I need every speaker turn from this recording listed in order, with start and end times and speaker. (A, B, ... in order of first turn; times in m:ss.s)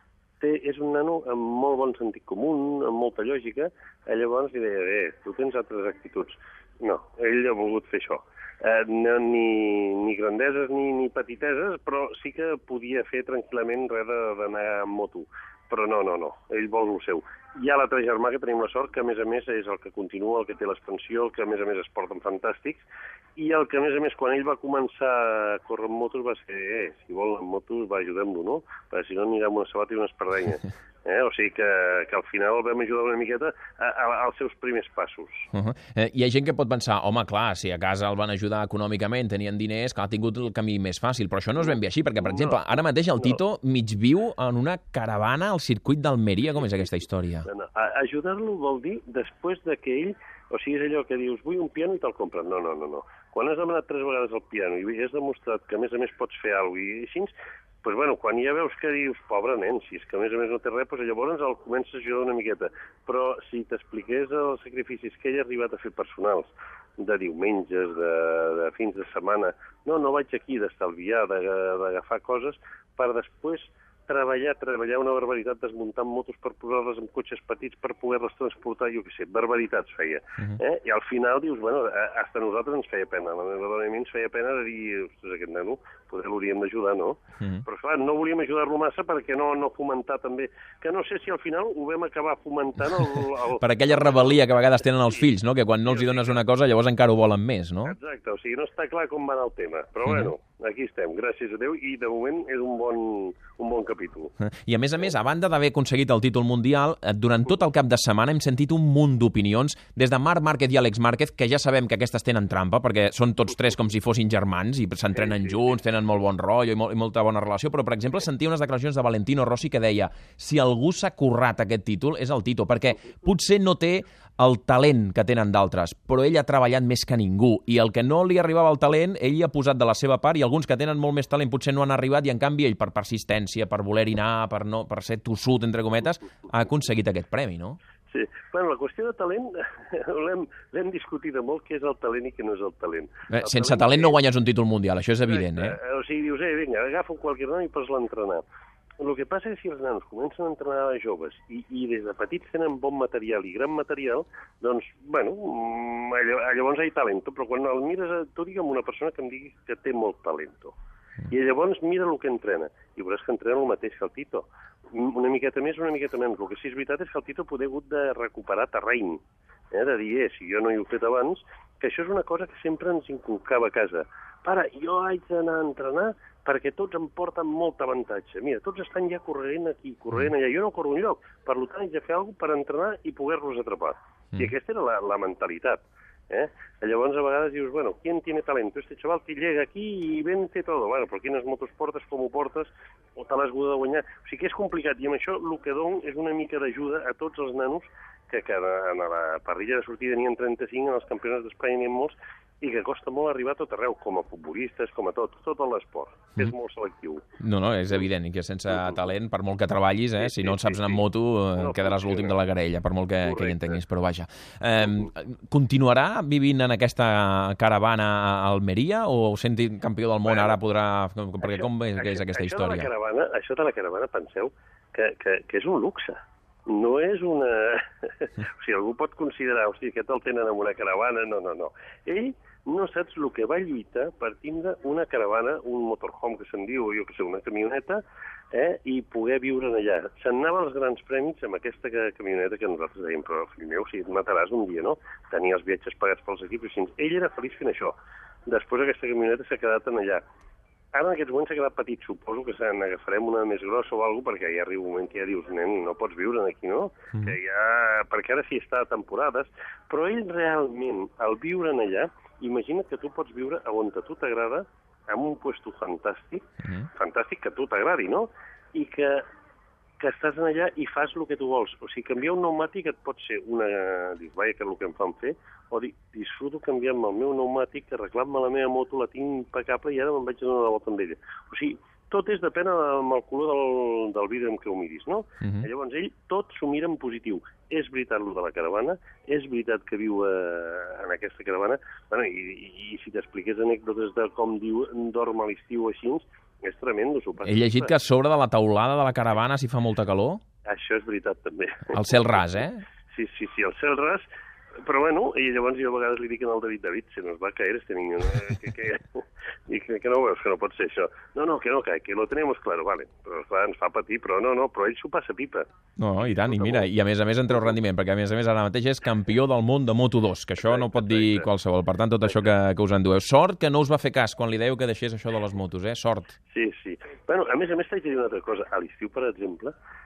0:00.4-0:35.5 A
0:35.5-0:47.5 B
0:42.2-0:43.4 A
0:47.5-1:34.4 A
1:27.4-1:27.6 B
1:33.6-1:38.0 B
1:35.9-1:36.4 A
1:37.8-1:44.3 A
1:40.1-1:40.3 B
1:44.4-2:17.8 B
2:18.1-2:24.2 A
2:23.3-2:25.8 B
2:25.2-2:28.4 A
2:29.0-2:40.7 A
2:41.3-3:27.2 A
3:27.4-3:42.9 B
3:30.2-3:32.4 A
3:33.2-3:33.8 A
3:40.3-3:40.6 A
3:41.4-4:08.0 A
4:08.5-4:10.2 A
4:10.9-4:29.2 A
4:30.0-4:57.9 A
4:45.4-4:45.7 B
4:57.4-5:00.4 B
5:00.6-5:02.4 A
5:01.9-5:02.8 B
5:03.1-5:04.3 A
5:04.8-5:15.7 A
5:16.0-5:26.4 B
5:16.2-5:16.9 A
5:20.6-5:21.5 A
5:26.5-5:29.7 A